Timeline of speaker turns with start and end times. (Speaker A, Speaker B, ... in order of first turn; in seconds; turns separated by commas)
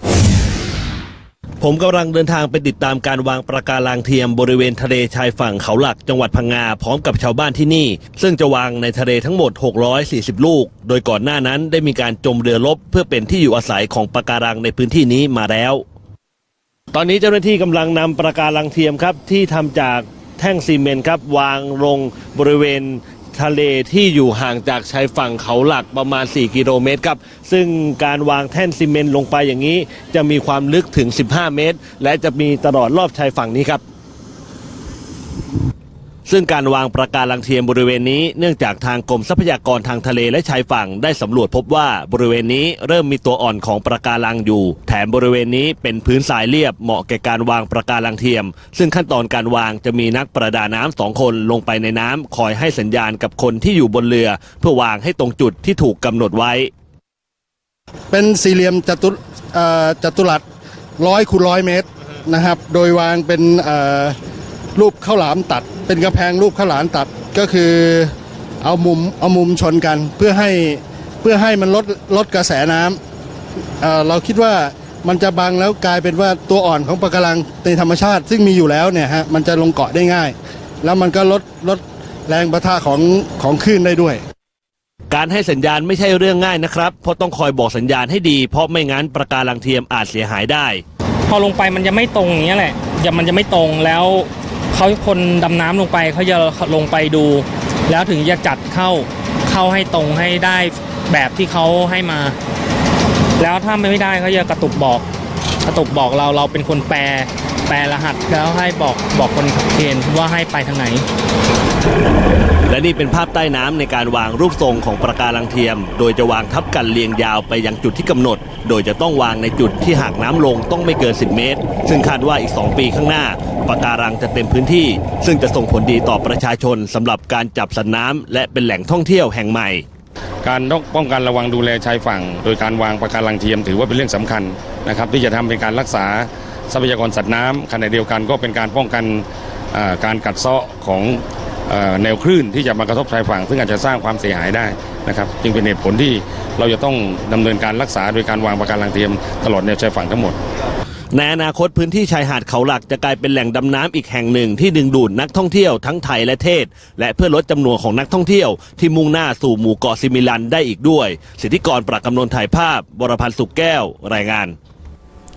Speaker A: 1.6-15.8, Speaker A: 16.9-33.8, Speaker A: 36.3-56.7, Speaker B: 58.1-60.4, Speaker B: 61.0-64.2, Speaker B: 64.8-73.0, Speaker B: 73.8-84.2, Speaker A: 85.1-90.8, Speaker C: 91.3-102.3, Speaker C: 103.4-105.0, Speaker C: 105.6-111.0, Speaker A: 112.7-129.8, Speaker D: 130.4-150.4, Speaker A: 151.1-164.5